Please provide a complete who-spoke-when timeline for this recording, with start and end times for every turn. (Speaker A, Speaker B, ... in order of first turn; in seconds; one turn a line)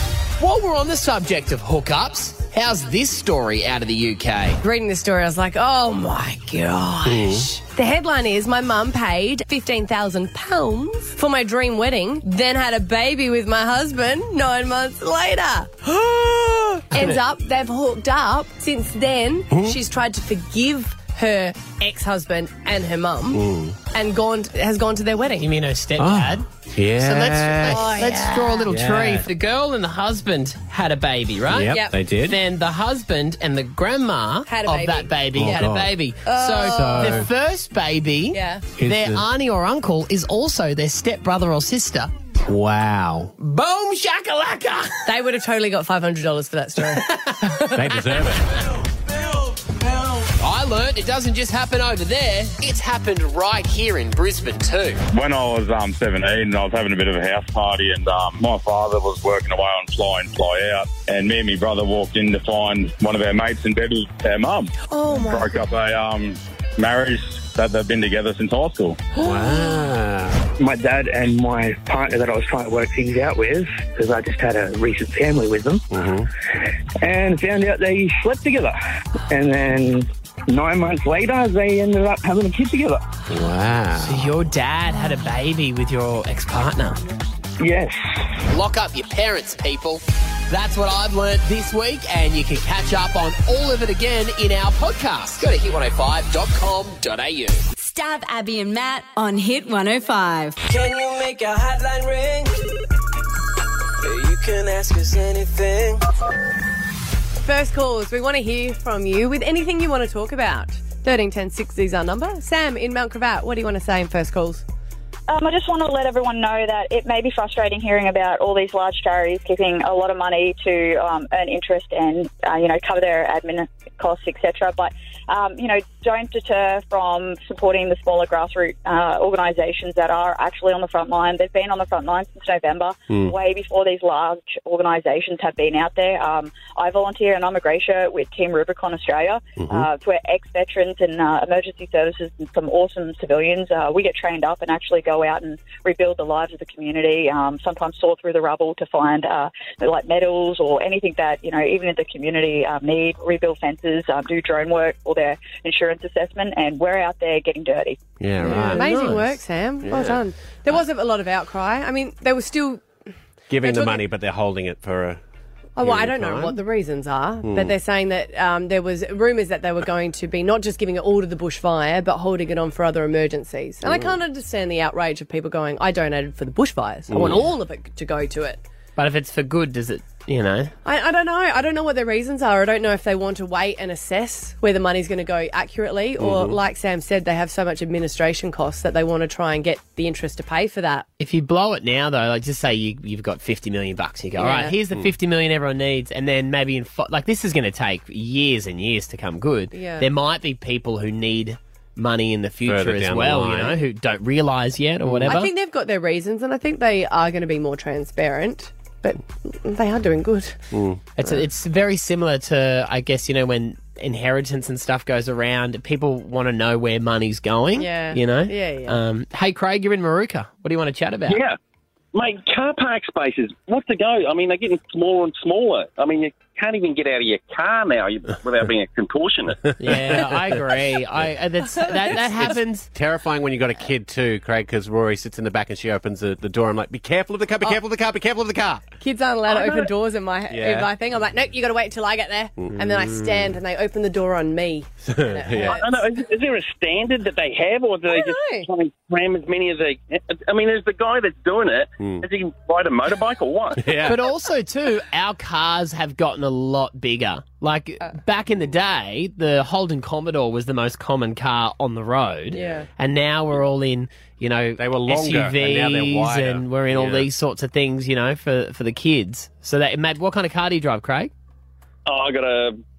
Speaker A: 0.4-4.6
Speaker B: 4.6-25.5
Speaker C: 7.1-7.5
Speaker C: 19.5-19.8
Speaker C: 23.3-23.8
Speaker A: 25.4-26.5
Speaker C: 26.0-28.0
Speaker A: 27.0-42.1
Speaker B: 27.7-28.7
Speaker C: 28.7-29.3
Speaker C: 31.5-32.4
Speaker B: 31.7-32.0
Speaker B: 34.5-37.3
Speaker C: 35.4-35.9
Speaker C: 36.6-37.3
Speaker B: 38.3-38.7
Speaker C: 38.8-39.3
Speaker C: 42.4-43.3
Speaker A: 43.4-45.1
Speaker B: 45.1-48.0
Speaker C: 47.7-48.5
Speaker A: 50.4-55.0
Speaker D: 55.1-69.0
Speaker B: 64.8-65.6
Speaker C: 69.2-70.4
Speaker B: 69.2-69.9
Speaker E: 70.6-75.8
Speaker C: 75.9-76.3
Speaker E: 77.0-78.7
Speaker E: 79.3-83.0
Speaker C: 83.3-84.3
Speaker A: 84.0-87.0
Speaker E: 87.6-88.2
Speaker A: 88.5-97.6
Speaker F: 97.8-100.6
Speaker G: 100.7-102.6
Speaker G: 104.0-106.0
Speaker B: 107.4-114.6
Speaker H: 115.3-158.0
Speaker C: 139.6-139.9
Speaker C: 158.2-160.2
Speaker B: 158.4-162.9
Speaker A: 158.8-159.0
Speaker C: 163.5-165.2
Speaker B: 163.6-164.1
Speaker B: 165.8-178.6
Speaker C: 165.8-166.6
Speaker C: 167.4-167.8
Speaker C: 173.8-174.2
Speaker C: 177.1-177.5
Speaker A: 179.0-180.7
Speaker B: 180.8-191.1
Speaker C: 186.2-186.6
Speaker A: 191.2-205.5
Speaker B: 194.4-194.8
Speaker B: 199.7-200.1
Speaker C: 202.7-203.8
Speaker C: 205.0-205.3
Speaker B: 205.2-210.6
Speaker C: 210.7-211.0
Speaker A: 211.2-221.4
Speaker B: 217.8-219.0
Speaker I: 221.3-221.6
Speaker I: 222.1-229.7
Speaker A: 229.8-232.9
Speaker C: 232.3-238.9
Speaker B: 239.0-246.1
Speaker C: 240.5-240.9
Speaker C: 242.6-243.6
Speaker C: 245.1-245.8
Speaker I: 245.7-253.8
Speaker B: 248.1-248.7
Speaker C: 252.0-252.2
Speaker C: 253.8-254.2
Speaker A: 254.1-271.3
Speaker B: 262.5-262.9
Speaker C: 264.8-267.3
Speaker I: 272.1-272.8